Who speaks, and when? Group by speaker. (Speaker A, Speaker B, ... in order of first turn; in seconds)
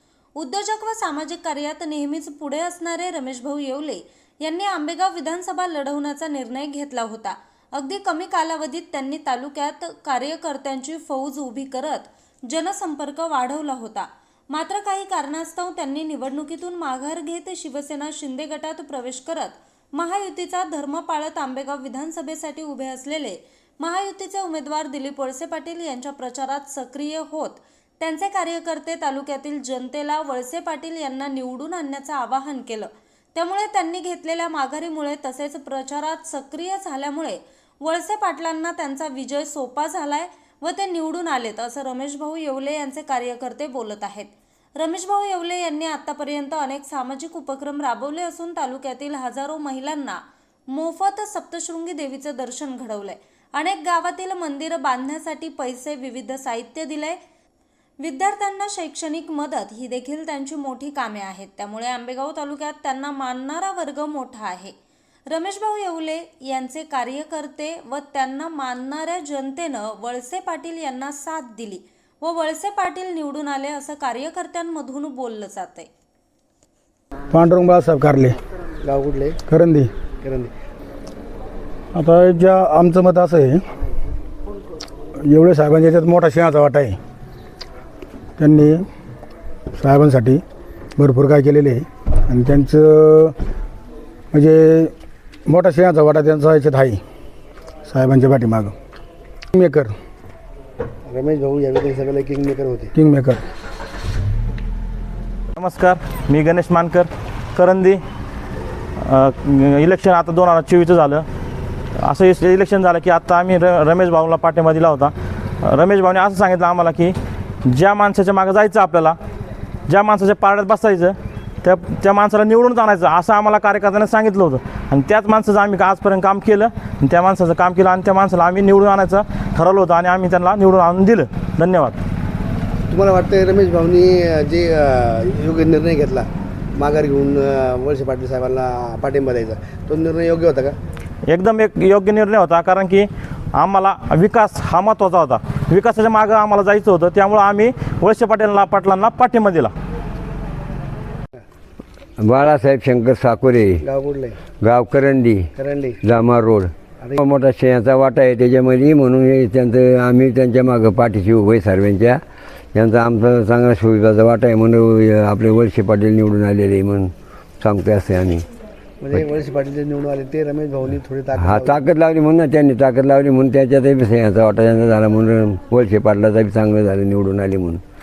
Speaker A: 0.4-57.2, 58.0-64.8, 65.3-75.9
Speaker B: 77.3-78.4, 79.5-79.9, 81.9-83.7, 85.2-87.0, 88.4-88.9, 89.7-90.4, 91.0-93.4, 94.3-94.9, 95.5-97.0, 97.9-98.8, 99.5-99.9, 103.0-103.4
Speaker C: 78.8-79.4, 80.1-80.5, 101.1-102.9, 132.9-140.8, 153.8-154.4, 155.6-156.0, 169.0-171.8
Speaker D: 105.6-108.0, 109.0-111.3, 112.0-119.2, 119.9-132.0, 141.3-149.7
Speaker E: 152.2-153.8, 154.6-162.2, 162.7-168.5, 171.4-177.8